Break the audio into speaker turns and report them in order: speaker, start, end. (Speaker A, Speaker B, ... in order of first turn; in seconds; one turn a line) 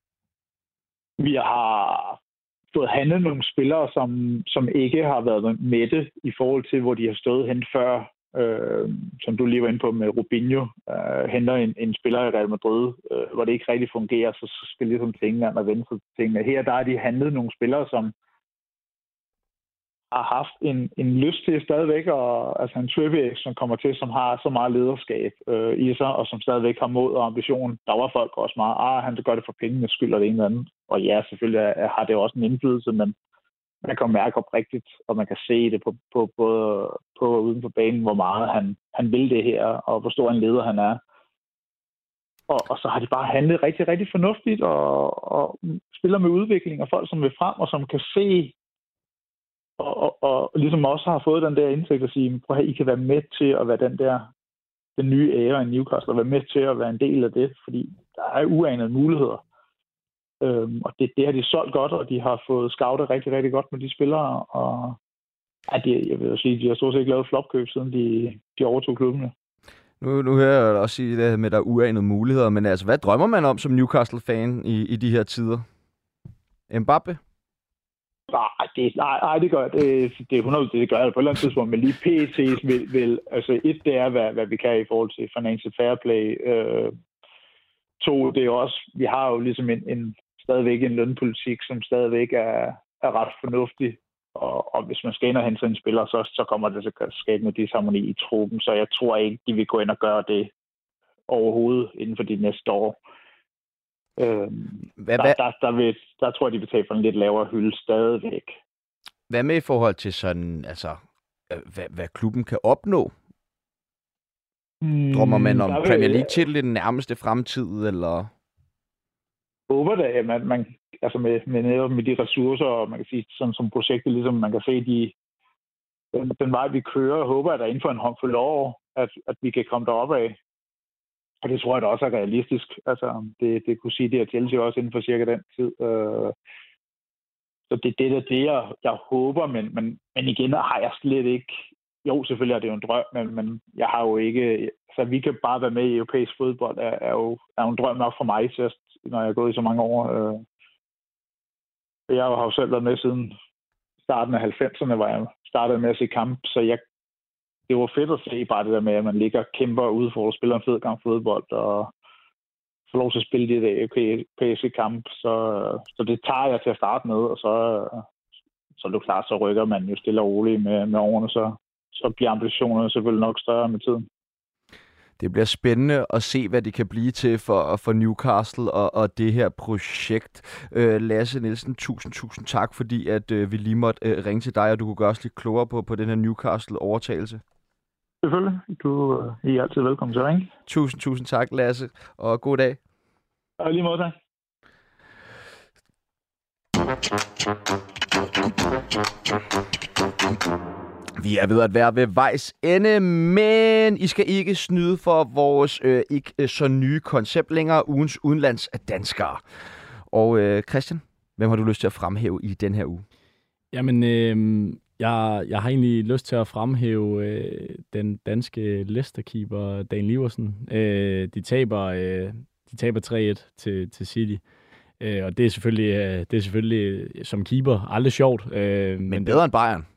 Speaker A: 1.2-2.2
Speaker A: 2.7-18.1
Speaker A: 20.1-33.1
Speaker A: 33.8-41.0
Speaker A: 42.5-48.5
Speaker A: 49.8-54.3
Speaker A: 55.0-59.4
Speaker A: 60.4-65.0
Speaker A: 65.7-69.3
Speaker B: 70.0-75.6
Speaker B: 76.7-77.2
Speaker A: 78.3-86.9
Speaker A: 88.0-100.5
Speaker A: 101.3-103.0
Speaker A: 104.2-108.6
Speaker B: 105.0-105.4
Speaker B: 109.3-113.1
Speaker A: 114.8-116.3
Speaker B: 115.1-118.3
Speaker A: 119.7-125.1
Speaker A: 126.1-130.4
Speaker A: 131.4-136.3
Speaker A: 137.7-150.4
Speaker A: 152.1-153.3
Speaker A: 154.1-156.8
Speaker A: 157.7-161.9
Speaker A: 162.9-168.1
Speaker A: 168.8-174.1
Speaker B: 175.2-187.4
Speaker A: 188.2-190.5
Speaker B: 190.7-192.8
Speaker A: 193.6-194.1
Speaker B: 201.2-209.4
Speaker B: 210.1-213.0
Speaker C: 213.7-224.4
Speaker C: 225.0-229.4
Speaker B: 229.1-229.8